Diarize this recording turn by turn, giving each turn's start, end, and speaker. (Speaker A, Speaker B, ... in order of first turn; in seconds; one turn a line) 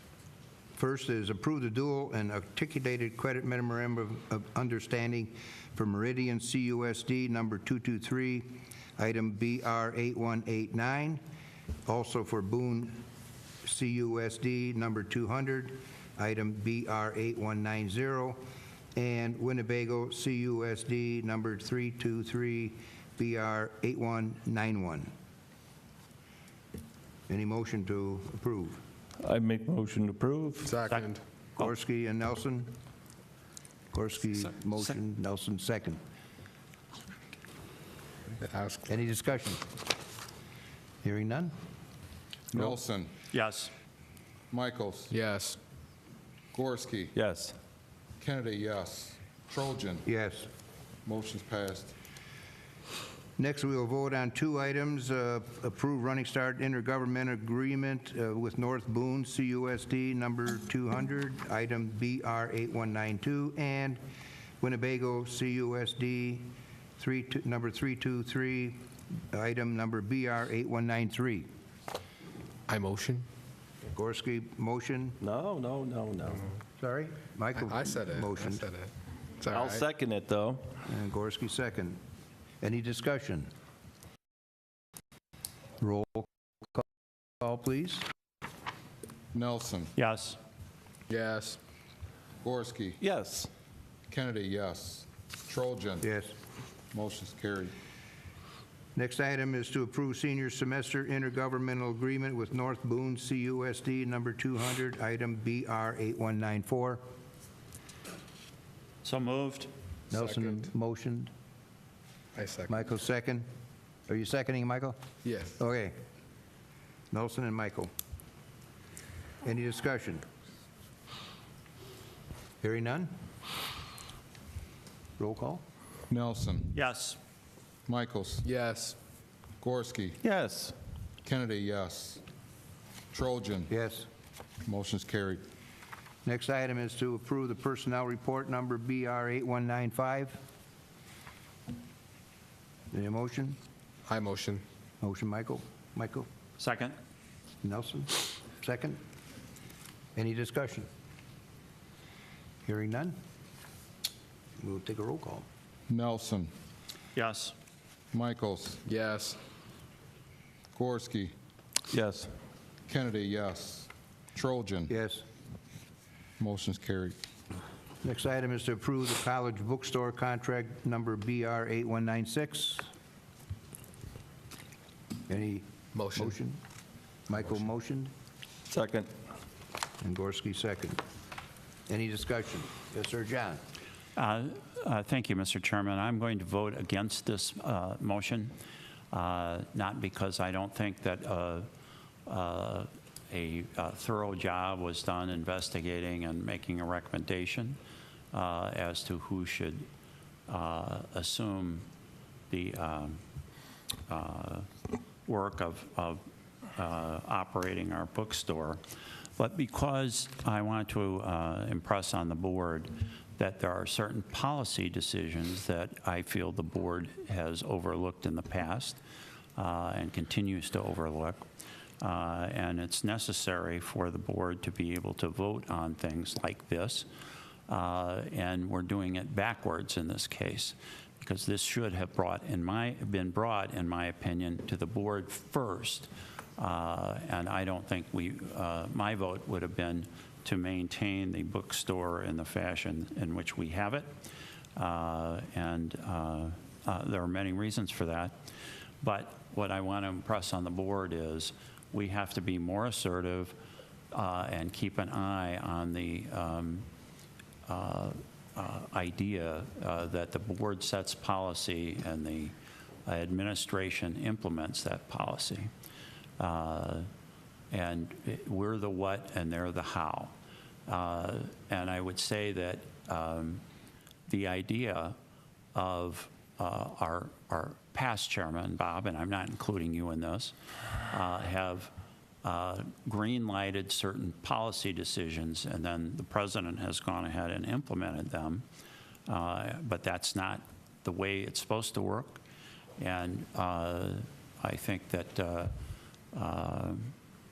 Speaker A: 0.8-11.2
Speaker A: 11.9-13.0
Speaker A: 13.6-18.4
Speaker A: 18.9-25.1
Speaker A: 27.3-28.8
Speaker B: 29.2-30.7
Speaker C: 30.6-31.2
Speaker A: 31.6-32.7
Speaker A: 33.9-36.0
Speaker C: 38.4-38.9
Speaker A: 38.9-39.6
Speaker A: 41.0-41.5
Speaker D: 42.5-43.1
Speaker E: 43.3-43.7
Speaker D: 44.5-45.1
Speaker C: 45.1-45.6
Speaker D: 46.5-47.1
Speaker B: 47.1-47.5
Speaker D: 48.2-50.1
Speaker A: 50.1-50.5
Speaker D: 51.1-51.9
Speaker A: 53.4-64.0
Speaker A: 64.6-66.5
Speaker A: 67.0-71.5
Speaker C: 72.7-73.3
Speaker A: 73.9-75.2
Speaker B: 75.2-76.5
Speaker A: 76.8-78.7
Speaker C: 77.6-79.8
Speaker B: 79.5-80.6
Speaker A: 80.9-82.0
Speaker A: 82.6-83.5
Speaker A: 85.8-86.8
Speaker A: 87.4-88.1
Speaker D: 89.3-90.0
Speaker E: 90.0-90.4
Speaker C: 91.1-91.6
Speaker D: 92.4-93.0
Speaker B: 93.0-93.5
Speaker D: 94.1-96.1
Speaker A: 96.0-96.3
Speaker D: 96.9-97.7
Speaker A: 99.0-107.0
Speaker E: 109.0-109.7
Speaker A: 110.1-111.3
Speaker C: 110.1-110.7
Speaker C: 112.3-112.8
Speaker A: 112.7-113.5
Speaker A: 114.1-115.0
Speaker C: 115.2-115.6
Speaker A: 115.6-116.0
Speaker A: 117.1-117.9
Speaker A: 119.4-120.2
Speaker A: 122.6-123.1
Speaker A: 125.2-125.6
Speaker D: 126.1-126.8
Speaker E: 126.7-127.2
Speaker D: 127.9-128.5
Speaker C: 128.4-129.0
Speaker D: 129.6-130.2
Speaker B: 130.2-130.7
Speaker D: 131.2-132.2
Speaker D: 133.1-133.7
Speaker A: 133.7-134.1
Speaker D: 134.6-135.4
Speaker A: 136.2-140.4
Speaker A: 142.9-143.6
Speaker C: 144.1-144.6
Speaker A: 145.0-146.3
Speaker E: 146.6-146.9
Speaker A: 147.6-149.0
Speaker A: 150.2-150.9
Speaker A: 152.7-153.2
Speaker A: 154.6-155.5
Speaker D: 155.9-156.5
Speaker E: 157.2-157.6
Speaker D: 158.1-158.8
Speaker C: 158.9-159.4
Speaker D: 160.7-161.3
Speaker B: 161.9-162.3
Speaker D: 162.9-164.9
Speaker A: 164.9-165.2
Speaker D: 166.4-167.2
Speaker A: 168.0-172.9
Speaker A: 175.3-176.6
Speaker C: 175.9-176.4
Speaker A: 177.3-178.1
Speaker B: 178.7-179.1
Speaker A: 180.0-181.0
Speaker A: 181.9-183.6
Speaker E: 184.2-188.5
Speaker E: 189.1-191.7
Speaker E: 192.3-197.8
Speaker E: 198.3-199.9
Speaker E: 200.5-201.9
Speaker E: 202.5-203.2
Speaker E: 204.1-206.2
Speaker E: 206.7-208.8
Speaker E: 209.4-219.0
Speaker E: 219.6-221.4
Speaker E: 222.0-227.1
Speaker E: 227.7-244.1
Speaker E: 244.8-248.3
Speaker E: 249.0-253.6
Speaker E: 254.1-256.9
Speaker E: 257.7-262.5
Speaker E: 263.1-265.7
Speaker E: 266.4-267.1
Speaker E: 267.7-270.3
Speaker E: 270.9-273.6
Speaker E: 274.3-275.1
Speaker E: 275.8-281.9
Speaker E: 282.4-288.6
Speaker E: 289.3-292.4
Speaker E: 293.0-295.7
Speaker E: 296.3-297.1